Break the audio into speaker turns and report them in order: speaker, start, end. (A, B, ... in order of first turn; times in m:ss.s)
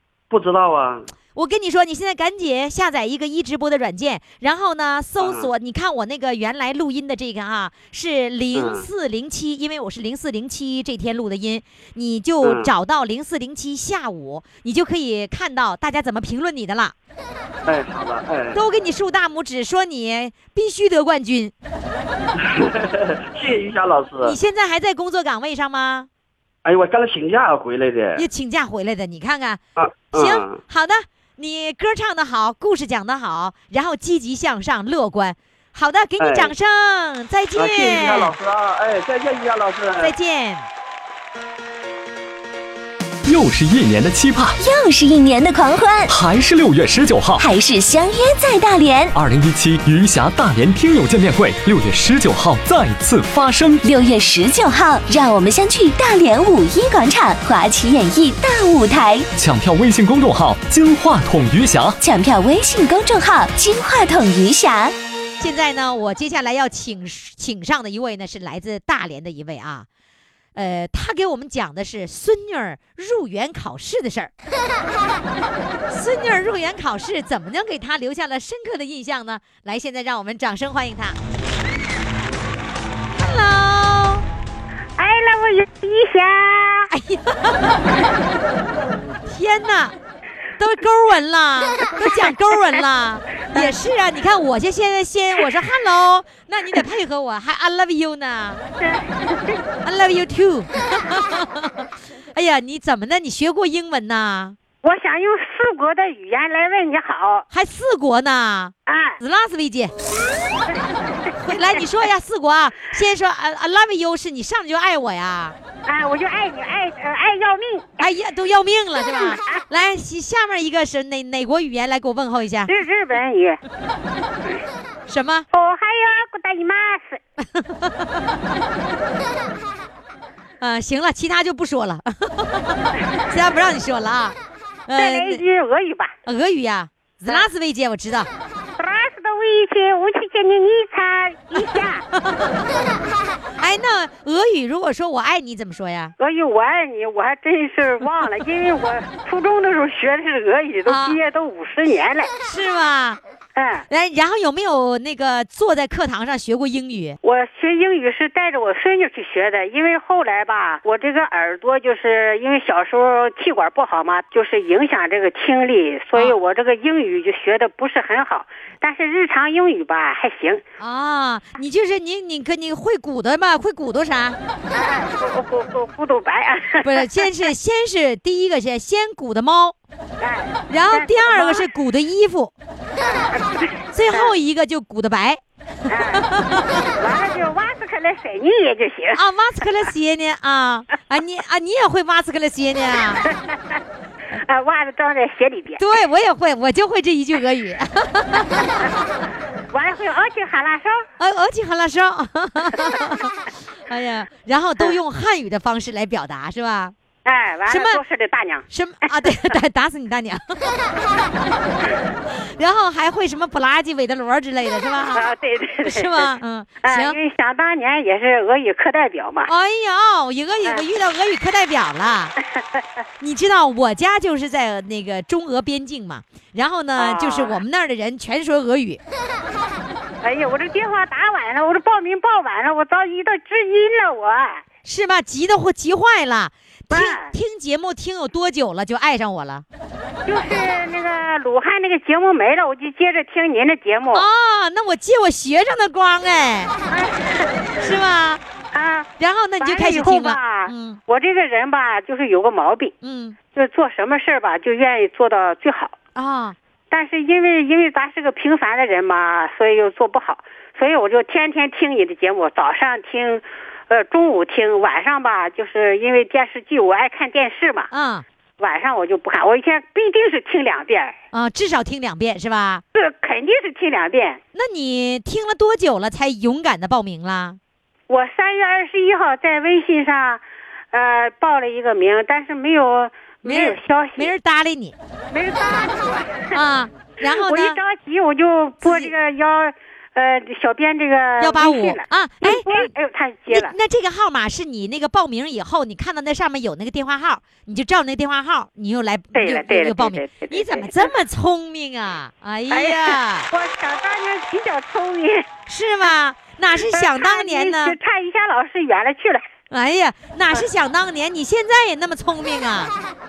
0:00.3-0:01.1 A
0:01.4-0:16.9 B
0:05.2-0:05.5 A
0:08.5-0:08.9 A
0:12.4-0:12.7 A
0:17.7-0:18.6 A
0:18.5-0:21.5 B
0:22.4-0:24.4 A
0:24.2-0:26.1 B
0:26.6-0:28.3 A
0:28.2-0:29.6 B
0:29.8-0:30.6 A
0:30.1-0:38.3 B
0:36.2-0:36.5 A
0:37.6-0:40.1 A
0:40.0-0:40.7 B
0:43.3-0:44.6 C
0:44.6-0:46.1 D
0:46.1-0:47.4 C
0:47.4-0:49.1 D
0:49.1-0:53.8 C
0:53.8-0:59.3 D
0:59.4-1:02.0 C
1:02.0-1:05.0 D
1:05.4-1:09.9 B
1:10.6-1:14.3 B
1:15.9-1:21.2 B
1:23.2-1:24.2 B
1:25.0-1:26.9 E
1:26.9-1:27.8 B
1:29.3-1:30.0 B
1:30.6-1:38.6 B
1:38.8-1:39.6 E
1:39.8-1:44.6 B
1:44.8-1:47.5 E
1:47.5-1:49.9 B
1:48.9-1:49.2 E
1:50.7-1:51.8 E
1:51.4-1:55.6 B
1:55.9-1:58.0 E
1:58.0-2:02.7 B
1:59.2-1:59.6 E
2:02.7-2:03.6 E
2:05.1-2:05.5 B
2:05.5-2:07.2 E
2:07.4-2:08.3 B
2:10.6-2:15.4 B
2:15.0-2:16.1 E
2:16.3-2:18.3 B
2:18.8-2:22.0 E
2:21.5-2:22.6 B
2:23.6-2:26.1 B
2:26.2-2:32.3 E
2:30.9-2:31.2 B
2:32.4-2:33.2 B
2:33.6-2:33.9 E
2:33.9-2:37.2 B
2:37.2-2:50.6 E
2:50.8-2:54.4 B
2:54.7-2:57.2 E
2:56.8-2:59.8 B
3:00.2-3:01.6 E
3:00.7-3:02.5 B
3:03.0-3:04.3 E
3:03.9-3:05.4 B
3:05.9-3:06.3 E
3:06.1-3:06.8 B
3:07.0-3:09.2 E
3:09.1-3:13.2 B
3:13.3-3:13.8 E
3:14.3-3:15.8 E
3:15.8-3:19.0 B
3:18.5-3:18.9 E
3:19.7-3:21.1 E
3:21.2-3:26.9 B
3:27.2-3:28.7 E
3:27.7-3:28.0 B
3:28.7-3:30.7 B
3:32.6-3:35.2 B
3:35.1-3:36.3 E
3:35.8-3:37.2 B
3:36.8-3:39.5 E
3:39.5-3:42.4 B
3:43.2-3:49.0 B
3:47.0-3:47.6 E
3:50.2-3:54.6 E
3:54.8-3:59.6 B
3:56.9-3:57.3 E
4:00.3-4:04.3 E
4:04.1-4:06.8 B
4:06.9-4:07.6 E
4:07.8-4:08.4 B
4:08.7-4:09.1 E
4:09.2-4:11.0 B
4:09.6-4:12.9 E
4:13.0-4:13.4 B
4:13.5-4:16.0 E
4:16.2-4:16.6 B
4:16.9-4:27.9 E
4:27.9-4:28.2 B
4:28.6-4:31.2 E
4:31.3-4:32.8 B
4:32.9-4:34.4 E
4:34.5-4:37.6 B
4:38.1-4:44.3 E
4:43.4-4:45.0 B
4:45.3-4:46.6 E
4:46.5-4:47.8 B
4:47.3-4:53.7 E
4:48.8-4:49.1 B
4:51.4-4:52.9 B
4:53.5-5:03.5 B
4:59.3-5:01.1 E
5:02.7-5:05.5 E
5:05.7-5:08.0 B
5:06.9-5:09.4 E
5:09.7-5:12.9 B